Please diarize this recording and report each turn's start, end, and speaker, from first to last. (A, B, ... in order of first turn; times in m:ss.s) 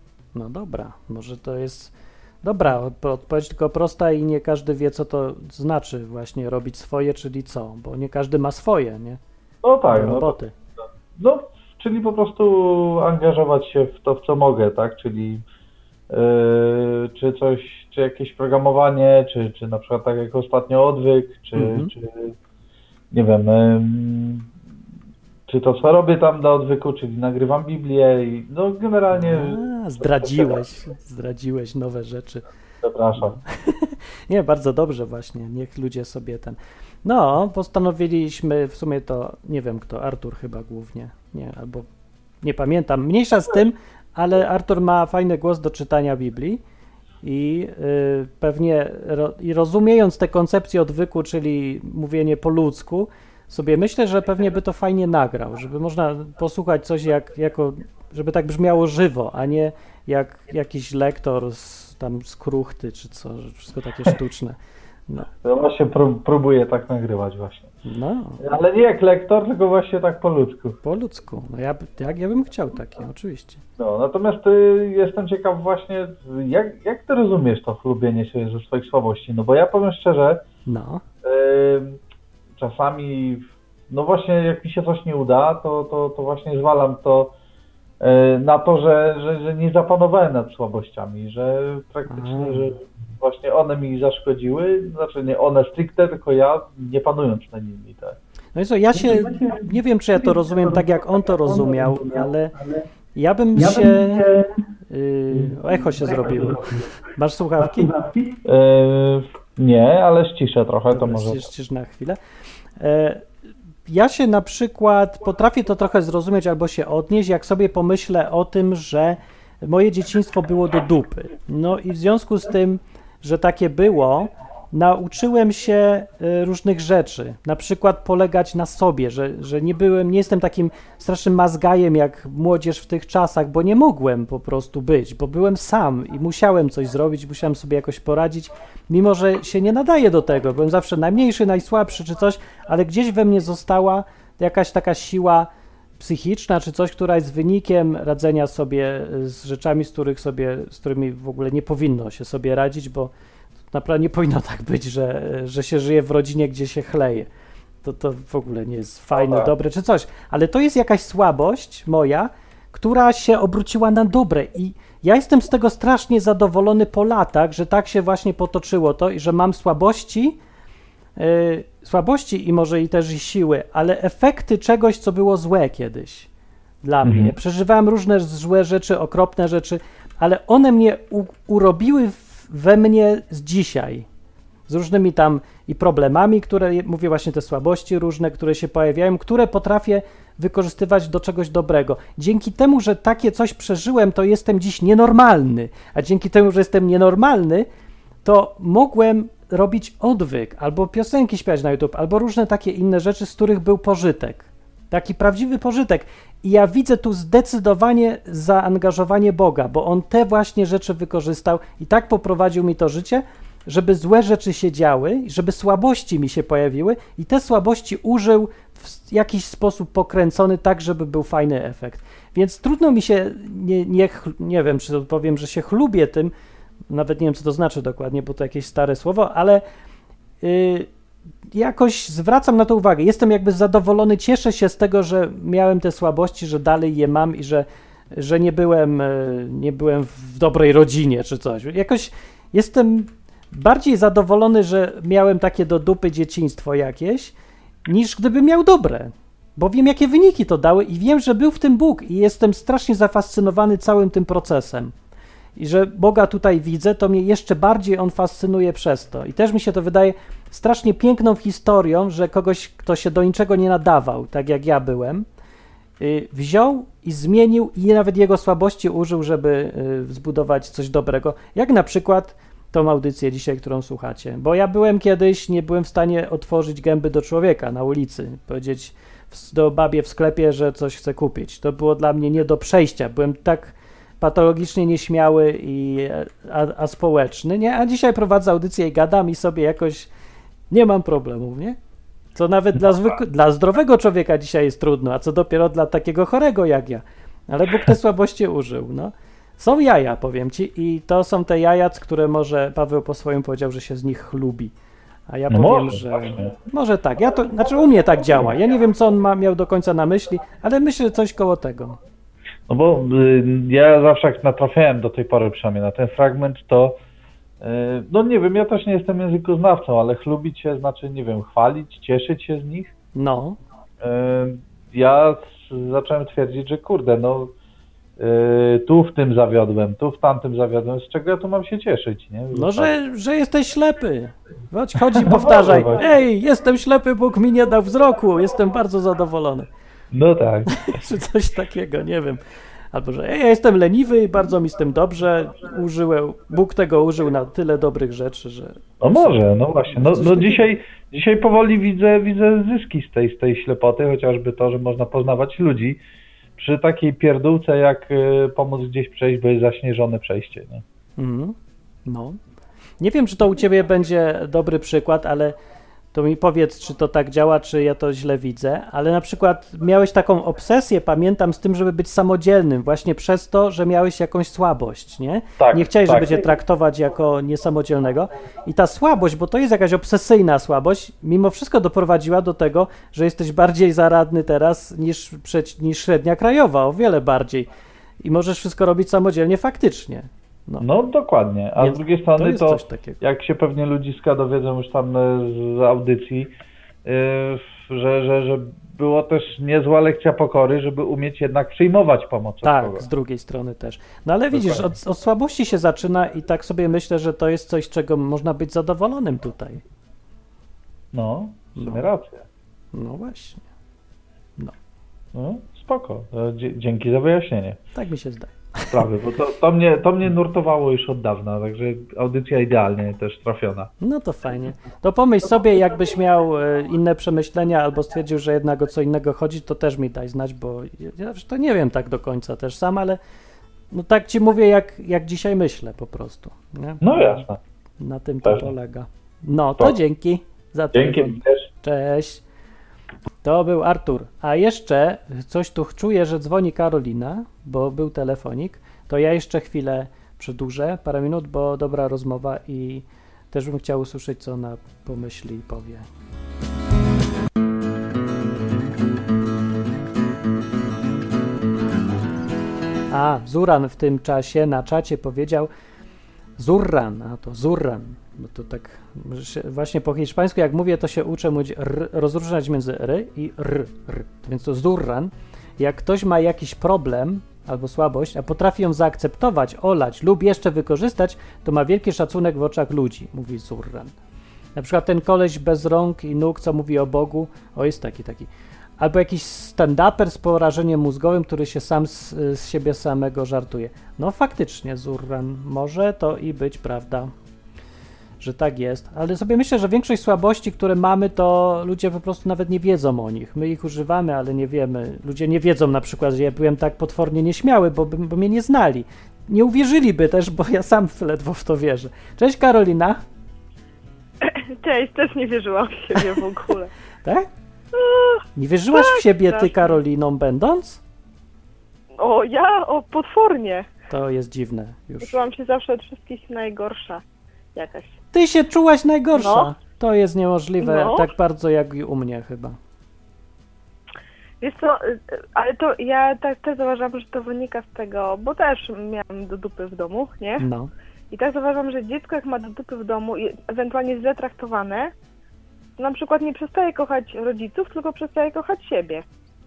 0:00.3-0:09.2 A
0:09.6-0:10.4 B
0:09.9-0:10.5 A
0:11.1-0:15.4 B
0:16.1-0:22.3 B
0:21.5-0:21.9 A
0:23.1-0:24.5 B
0:25.5-0:30.6 B
0:29.1-0:32.4 A
0:32.8-0:33.4 B
0:33.2-0:41.9 A
0:42.4-0:46.6 A
0:47.2-1:04.6 A
1:05.4-1:07.7 B
1:07.8-1:08.4 A
1:08.4-1:10.8 B
1:10.8-1:13.6 A
1:13.8-1:20.4 B
1:20.6-1:21.0 A
1:21.2-1:22.0 B
1:22.6-1:27.3 B
1:28.0-1:38.2 B
1:32.1-1:32.7 A
1:38.5-1:42.6 A
1:43.1-1:48.0 A
1:48.4-1:51.5 B
1:50.9-1:52.2 A
1:52.8-1:53.3 A
1:53.9-2:25.5 A
2:26.0-2:33.1 A
2:33.7-2:37.3 A
2:37.8-2:50.4 A
2:39.1-2:39.5 B
2:51.2-2:56.3 A
2:56.8-3:04.0 A
2:57.0-2:57.3 B
3:04.7-3:17.7 A
3:18.2-3:46.3 A
3:46.9-3:49.6 A
3:50.4-3:50.9 A
3:51.5-4:07.3 A
4:07.8-4:14.9 A
4:15.6-4:25.2 A
4:26.0-4:50.1 A
4:50.7-4:51.8 A
4:52.3-5:04.7 A
5:05.3-5:12.0 A
5:05.5-5:06.5 B
5:12.7-5:17.0 B
5:17.6-5:22.9 B
5:23.1-5:23.6 A
5:24.0-5:27.5 B
5:28.2-5:32.9 B
5:32.5-5:39.7 A
5:35.1-5:36.1 B
5:40.1-5:41.1 B
5:40.7-5:42.4 A
5:42.9-5:50.7 A
5:49.0-5:56.0 B
5:56.6-6:00.8 B
6:01.2-6:01.5 A
6:02.0-6:02.4 A
6:03.0-6:05.6 A
6:06.1-6:27.7 A
6:15.6-6:16.4 B
6:28.2-6:30.9 A
6:30.8-6:36.5 B
6:31.8-6:33.2 A
6:37.0-6:43.0 B
6:42.6-6:49.8 A
6:44.5-6:44.9 B
6:51.1-6:52.4 B
6:51.8-6:52.1 A
6:52.9-6:53.6 A
6:55.3-6:57.8 B
6:57.9-6:59.1 A
6:58.9-7:03.9 B
7:04.0-7:13.2 A
7:13.9-7:17.4 A
7:17.0-7:17.6 B
7:18.0-7:22.4 A
7:20.9-7:21.7 B
7:23.4-7:36.0 A
7:43.1-7:45.7 A
7:46.6-8:04.1 A
8:04.8-8:17.3 A
8:18.4-8:33.2 A
8:34.4-8:36.9 C
8:37.9-8:38.4 C
8:38.6-8:41.0 A
8:38.9-8:40.0 C
8:42.2-8:43.9 C
8:44.1-8:45.4 A
8:45.2-8:47.2 C
8:47.7-8:48.2 C
8:48.3-8:52.8 A
8:49.3-8:49.7 C
8:50.8-8:51.3 C
8:54.6-9:00.6 C
9:00.6-9:00.9 A
9:01.3-9:05.1 C
9:06.0-9:09.2 C